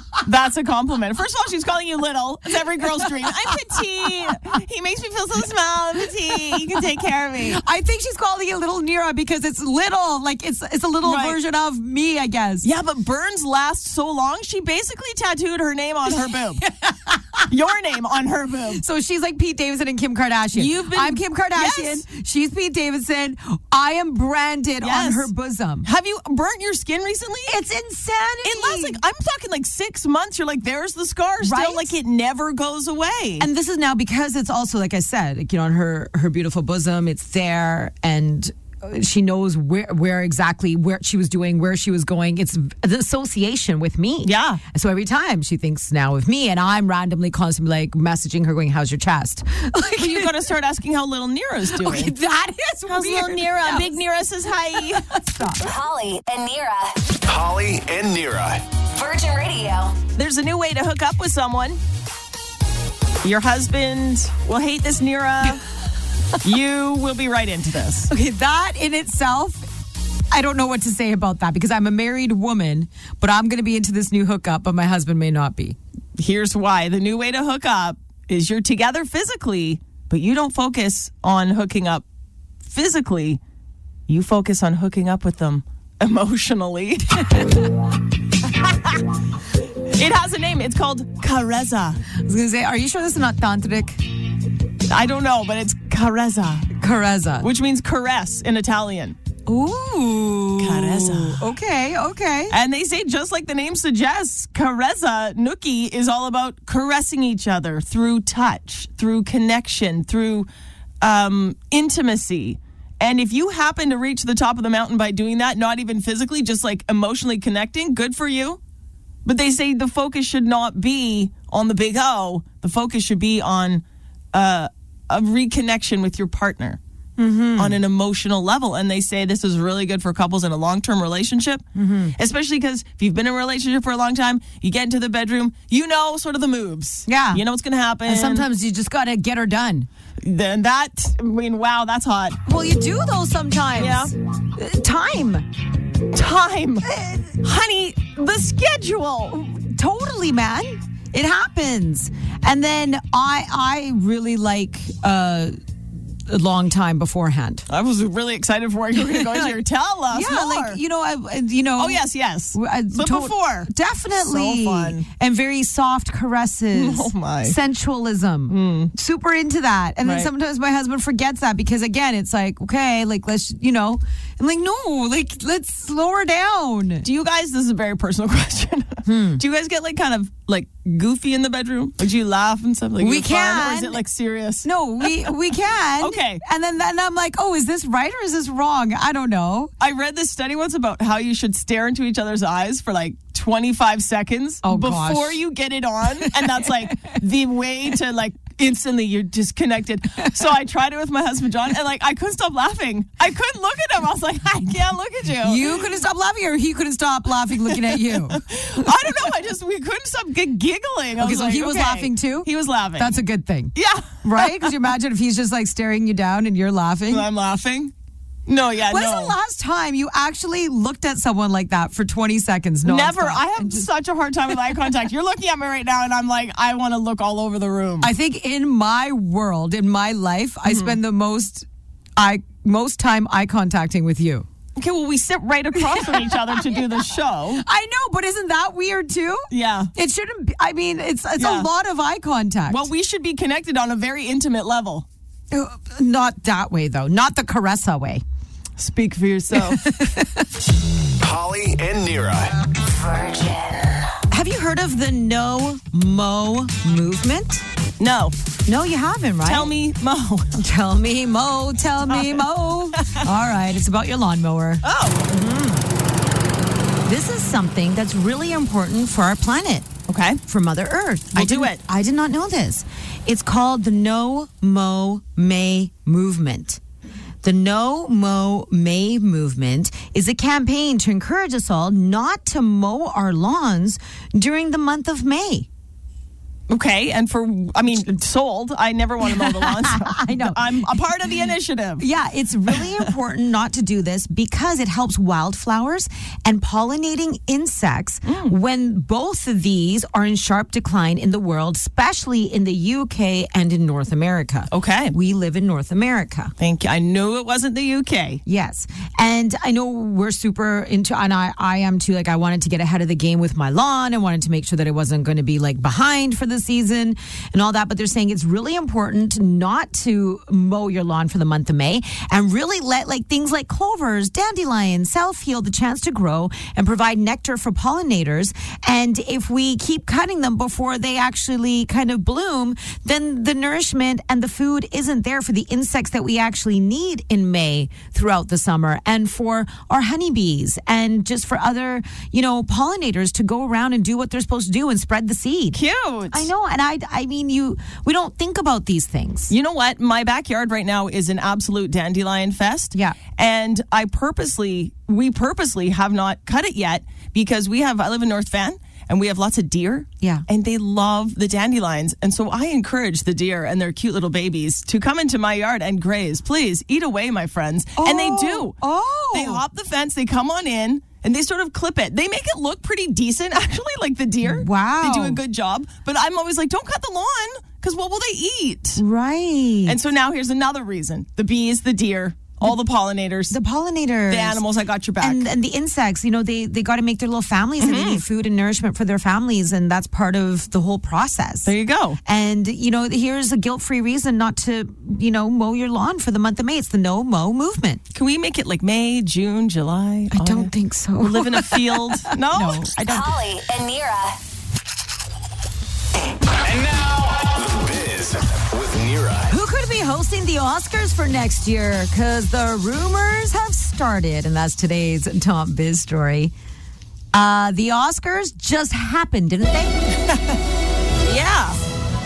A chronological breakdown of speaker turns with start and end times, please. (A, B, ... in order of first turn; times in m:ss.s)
0:00.2-0:07.6 A
0:02.8-0:04.4 B
0:06.2-0:12.7 B
0:11.0-0:11.4 A
0:12.6-0:16.6 A
0:16.1-0:17.5 B
0:17.5-0:18.8 A
0:18.7-0:25.9 B
0:20.6-0:22.0 A
0:24.8-0:25.3 A
0:25.8-0:27.6 A
0:27.5-0:29.0 B
0:28.4-0:33.5 A
0:31.4-0:31.9 B
0:33.4-0:50.5 B
0:44.2-0:44.6 A
0:50.0-0:52.2 A
0:51.7-0:54.0 B
0:52.9-0:55.1 A
0:54.7-0:55.7 B
0:55.6-0:57.0 C
0:57.2-0:58.7 D
0:58.9-1:00.0 C
1:00.2-1:01.8 A
1:03.2-1:05.6 A
1:06.4-1:08.1 A
1:08.1-1:09.7 B
1:10.3-1:15.8 B
1:16.2-1:22.0 A
1:22.6-1:23.4 A
1:24.1-1:27.3 A
1:29.9-1:32.0 A
1:32.2-1:34.0 B
1:34.9-1:36.7 A
1:36.8-1:37.5 B
1:37.4-1:39.2 A
1:39.5-1:42.6 B
1:40.6-1:41.5 A
1:42.5-1:50.5 A
1:51.0-1:58.6 A
1:59.2-2:06.8 A
2:07.2-2:07.8 B
2:07.6-2:11.6 A
2:11.8-2:12.1 B
2:12.2-2:18.5 A
2:17.1-2:17.4 B
2:18.1-2:19.9 B
2:20.2-2:22.4 A
2:22.5-2:25.5 B
2:23.7-2:24.1 A
2:26.1-2:26.9 A
2:26.9-2:27.3 B
2:27.4-2:29.4 A
2:29.3-2:35.6 B
2:36.3-2:37.7 B
2:37.7-2:40.8 A
2:39.0-2:57.1 B
2:41.8-2:43.7 A
2:44.2-2:45.1 A
2:46.7-2:47.6 A
2:48.5-2:48.9 A
2:50.0-2:50.3 A
2:57.0-3:05.1 A
2:59.0-2:59.4 B
3:03.0-3:04.0 B
3:04.6-3:09.7 B
3:06.0-3:06.4 A
3:09.8-3:25.9 A
3:14.6-3:15.4 B
3:16.2-3:17.1 B
3:25.4-3:29.1 B
3:27.7-3:33.2 A
3:31.2-3:37.3 B
3:33.8-3:34.7 A
3:37.1-3:37.9 A
3:38.5-3:39.4 A
3:38.9-3:43.9 B
3:42.8-3:48.1 A
3:48.0-3:54.5 B
3:50.7-3:51.0 A
3:54.8-3:57.6 A
3:55.8-3:56.9 B
3:57.6-4:02.9 B
3:59.5-3:59.9 A
4:01.4-4:01.7 A
4:02.7-4:05.1 A
4:05.5-4:08.2 B
4:08.8-4:09.9 A
4:09.5-4:10.5 B
4:11.2-4:12.6 D
4:12.9-4:14.1 C
4:14.3-4:17.6 B
4:18.0-4:18.4 A
4:18.7-4:19.7 B
4:19.4-4:20.6 A
4:20.6-4:25.9 B
4:22.1-4:22.4 A
4:22.9-4:23.3 A
4:24.8-4:25.2 A
4:27.1-4:29.9 B
4:30.1-4:30.4 A
4:30.5-4:36.8 B
4:31.3-4:31.8 A
4:37.4-4:45.7 B
4:46.7-4:52.1 A
4:49.2-4:51.1 B
4:52.0-5:06.5 B
4:52.7-4:53.0 A
4:58.3-4:58.6 A
5:04.7-5:05.2 A
5:06.6-5:08.4 A
5:08.5-5:45.8 B
5:45.7-5:46.5 A
5:46.3-5:49.5 B
5:49.5-6:08.8 A
6:08.0-6:09.6 B
6:09.3-6:19.0 A
6:14.4-6:15.4 B
6:19.0-6:20.0 B
6:19.8-6:23.6 A
6:23.5-6:24.6 B
6:24.3-6:25.5 A
6:25.2-6:31.7 B
6:27.8-6:28.2 A
6:31.6-6:32.2 A
6:32.2-6:38.0 B
6:38.1-6:42.9 A
6:40.3-6:43.4 B
6:43.0-6:44.4 C
6:46.6-6:49.6 D
6:49.5-6:56.5 B
6:57.3-7:00.2 B
7:01.2-7:01.8 A